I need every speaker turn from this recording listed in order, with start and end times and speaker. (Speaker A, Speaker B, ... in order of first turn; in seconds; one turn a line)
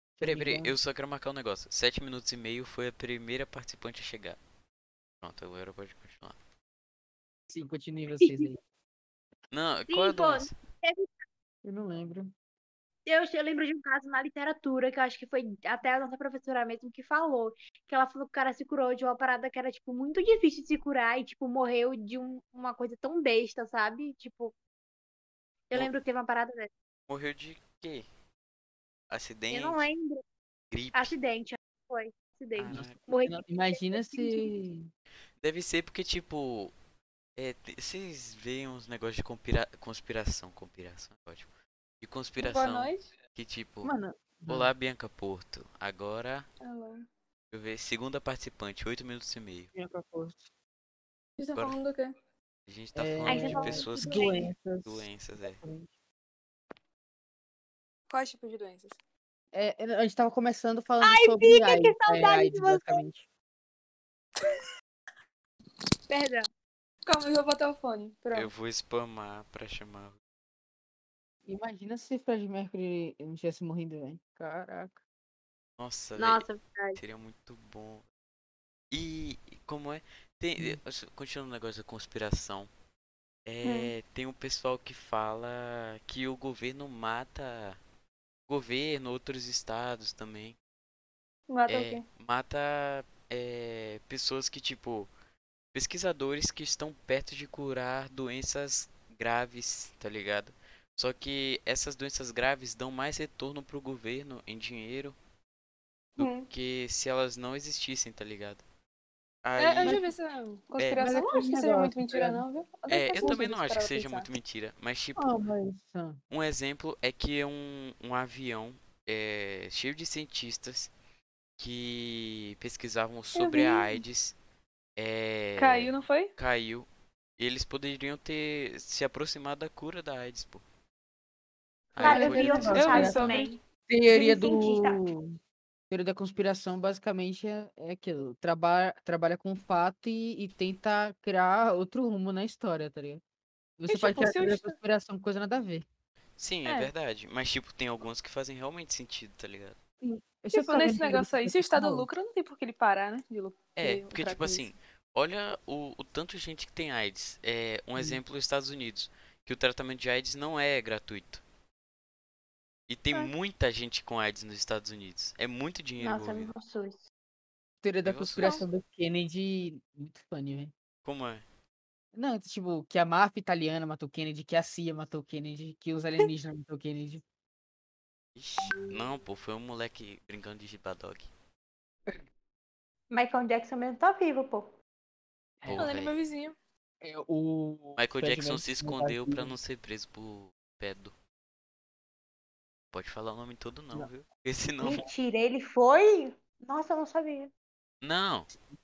Speaker A: 0.2-0.7
Speaker B: 0.2-4.4
Speaker B: 5.2-6.4
Speaker A: 7.5-8.6
Speaker B: 9.5-10.6
Speaker C: 9.9-11.1
Speaker A: 11.6-12.3
Speaker C: 13.1-24.5
Speaker C: 25.7-26.7
Speaker B: 27.1-28.1
Speaker B: 29.1-29.9
Speaker C: 29.5-30.2
Speaker B: 30.7-31.1
Speaker C: 30.9-34.5
Speaker B: 32.5-33.0
Speaker A: 32.7-34.9
Speaker B: 35.4-36.7
Speaker B: 37.4-41.5
Speaker B: 42.0-43.9
Speaker D: 42.4-43.1
Speaker A: 43.8-44.7
Speaker B: 44.5-46.5
Speaker D: 46.6-47.0
Speaker B: 47.5-49.7
Speaker A: 49.7-50.4
Speaker D: 51.4-52.1
Speaker B: 52.7-55.6
Speaker A: 52.9-55.9
Speaker C: 53.2-54.5
Speaker D: 58.1-58.9
Speaker A: 59.5-63.2
Speaker C: 61.0-63.0
Speaker C: 66.1-66.5
Speaker D: 67.0-68.5
Speaker B: 68.3-70.2
Speaker A: 71.5-75.0
Speaker B: 75.8-78.0
Speaker C: 76.2-77.0
Speaker B: 78.9-82.7
Speaker B: 83.5-87.8
Speaker D: 83.6-83.9
Speaker B: 88.5-90.5
Speaker D: 91.5-92.0
Speaker B: 91.7-95.1
Speaker B: 95.7-105.2
Speaker D: 106.2-106.5
Speaker B: 106.2-108.6
Speaker B: 109.4-110.0
Speaker D: 109.6-114.3
Speaker A: 109.8-110.1
Speaker B: 110.8-111.0
Speaker A: 111.0-112.4
Speaker B: 112.9-115.5
Speaker A: 113.2-113.4
Speaker A: 115.2-116.2
Speaker B: 116.3-120.9
Speaker B: 121.6-124.3
Speaker D: 123.3-124.0
Speaker B: 125.0-130.6
Speaker D: 125.6-126.3
Speaker B: 131.9-133.4
Speaker A: 132.0-133.3
Speaker C: 132.0-135.0
Speaker D: 132.7-133.5
Speaker A: 133.9-135.4
Speaker A: 135.9-143.2
Speaker A: 143.8-145.8
Speaker D: 143.9-144.8
Speaker B: 146.4-149.8
Speaker D: 146.6-146.9
Speaker A: 150.0-152.1
Speaker D: 150.5-154.7
Speaker B: 153.8-161.4
Speaker B: 162.9-166.5
Speaker C: 166.0-167.1
Speaker A: 167.8-170.7
Speaker B: 168.0-168.6
Speaker D: 168.4-168.7
Speaker B: 171.0-171.4
Speaker A: 172.1-177.2
Speaker B: 178.3-181.3
Speaker C: 183.1-184.7
Speaker A: 185.6-185.8
Speaker B: 185.7-186.2
Speaker D: 185.7-186.5
Speaker A: 187.0-189.6
Speaker B: 188.0-191.1
Speaker B: 192.9-195.0
Speaker C: 194.8-197.5
Speaker B: 198.0-198.5